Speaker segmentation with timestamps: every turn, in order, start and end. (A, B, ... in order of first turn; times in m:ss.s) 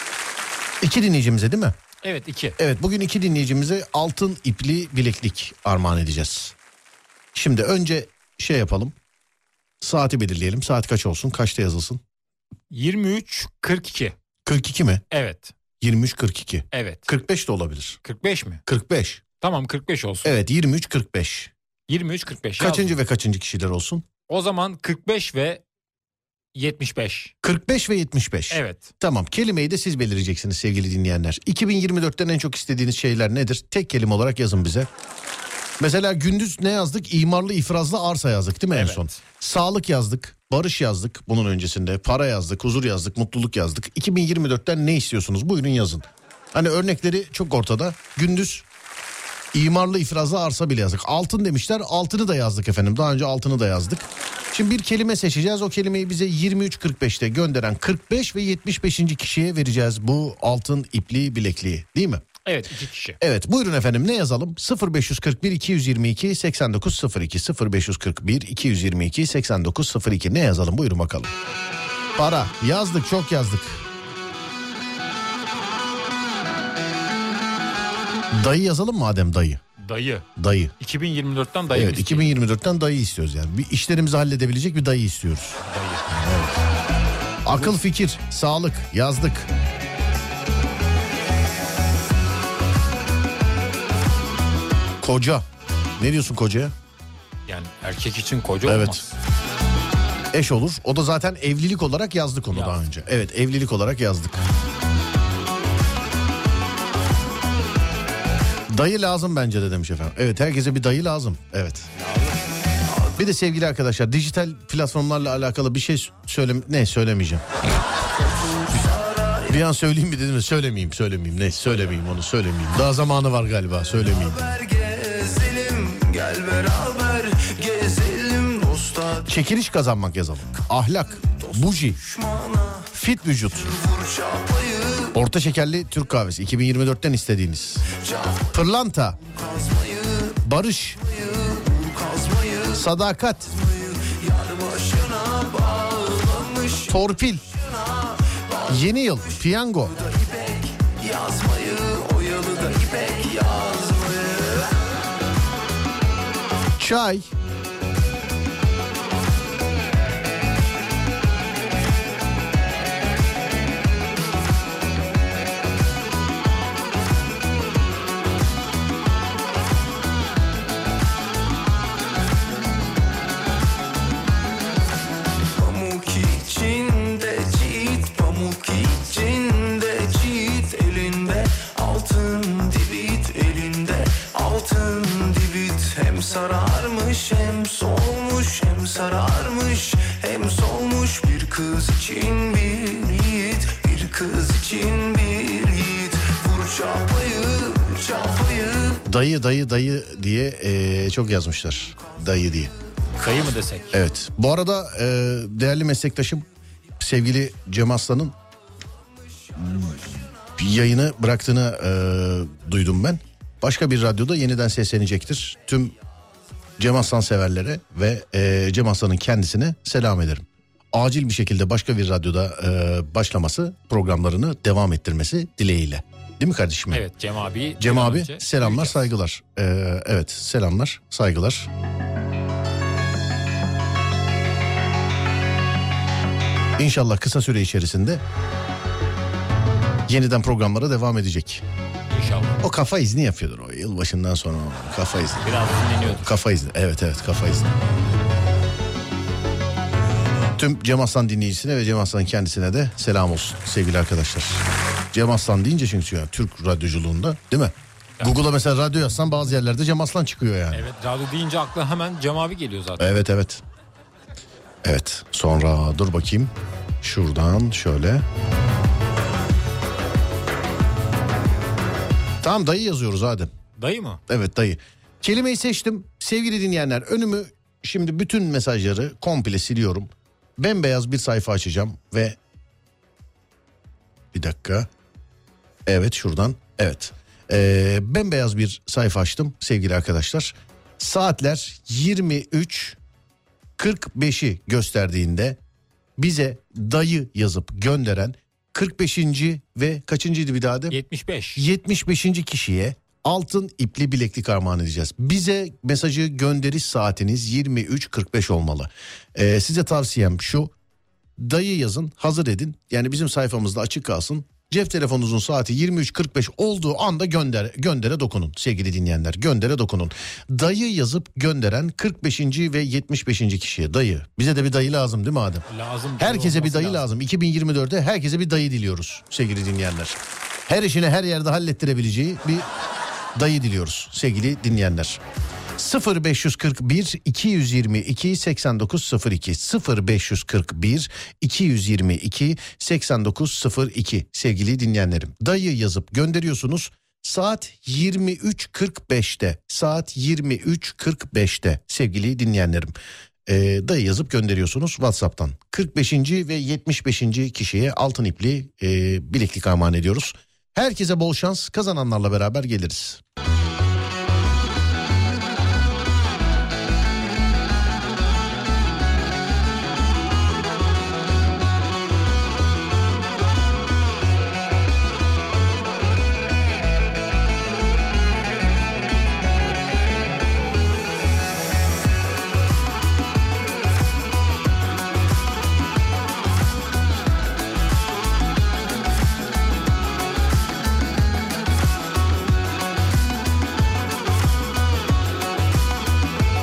0:00.8-0:01.7 A
0:02.0-0:02.6 B
0:02.6-0:06.5 A
0:07.3-0:08.9 A
0:09.8-0:12.0 A
0:12.7-0:14.1 B
0:14.4-0:15.0 A
0:15.1-0:15.5 B
0:15.8-0:18.0 A
0:16.7-0:17.1 B
0:18.0-0:18.6 B
0:18.6-0:19.2 A
0:19.4-0:20.4 B
0:20.2-0:21.5 A
0:21.9-0:23.0 B
0:22.6-0:24.0 A
0:24.3-0:25.6 B
0:26.5-0:27.3 B
0:27.4-0:34.9 A
0:28.5-0:28.9 B
0:35.8-0:48.6 A
0:38.7-0:39.2 B
0:49.5-1:02.2 A
1:02.4-1:03.2 B
1:03.2-1:11.3 A
1:12.2-1:13.8 A
1:18.3-1:19.6 A
1:19.8-1:20.2 B
1:20.4-1:20.7 A
1:20.8-1:22.3 B
1:21.7-1:25.6 A
1:25.6-1:26.3 B
1:26.1-1:26.6 A
1:27.4-1:29.5 A
1:35.0-1:35.4 A
1:36.0-1:36.7 A
1:37.5-1:39.0 B
1:38.6-1:39.0 A
1:40.3-1:44.4 A
1:42.5-1:42.8 B
1:48.7-1:51.9 A
1:53.2-1:57.4 A
1:58.3-1:59.6 C
1:58.7-2:04.4 A
2:04.2-2:09.4 C
2:09.2-2:12.0 A
2:11.3-2:12.9 C
2:12.9-2:13.7 A
2:13.6-2:15.2 C
2:15.1-2:17.8 A
2:17.9-2:18.5 C
2:18.5-2:19.2 A
2:19.2-2:20.4 C
2:20.4-2:21.0 A
2:21.0-2:22.9 C
2:22.7-2:23.5 A
2:23.5-2:34.8 C
2:26.9-2:27.4 A
2:28.7-2:29.9 A
2:36.8-2:37.3 A
2:55.6-3:19.0 C
3:19.0-3:22.7 A
3:23.2-3:24.0 B
3:23.9-3:26.4 A
3:27.0-3:28.3 A
3:29.6-3:35.9 A
3:36.8-3:47.1 A
3:46.9-3:49.1 B
3:47.8-3:51.7 A
3:56.8-3:58.2 A
4:00.1-4:01.6 A
4:02.1-4:02.6 B
4:02.6-4:07.7 A
4:05.4-4:06.3 B
4:10.6-4:20.9 A
4:20.7-4:23.2 B
4:23.0-4:23.6 A
4:24.8-4:28.2 A
4:32.4-4:33.5 A
4:33.8-4:34.2 B
4:34.3-4:42.4 A
4:44.3-4:44.9 A
4:45.8-4:53.0 A
4:53.8-4:55.6 A
4:56.2-5:01.0 A
5:00.9-5:01.6 B
5:01.6-5:10.7 A
5:11.4-5:25.6 A
5:25.7-5:27.0 B
5:26.2-5:32.7 A
5:33.3-5:35.2 A
5:35.8-5:52.9 A
5:53.4-6:03.2 A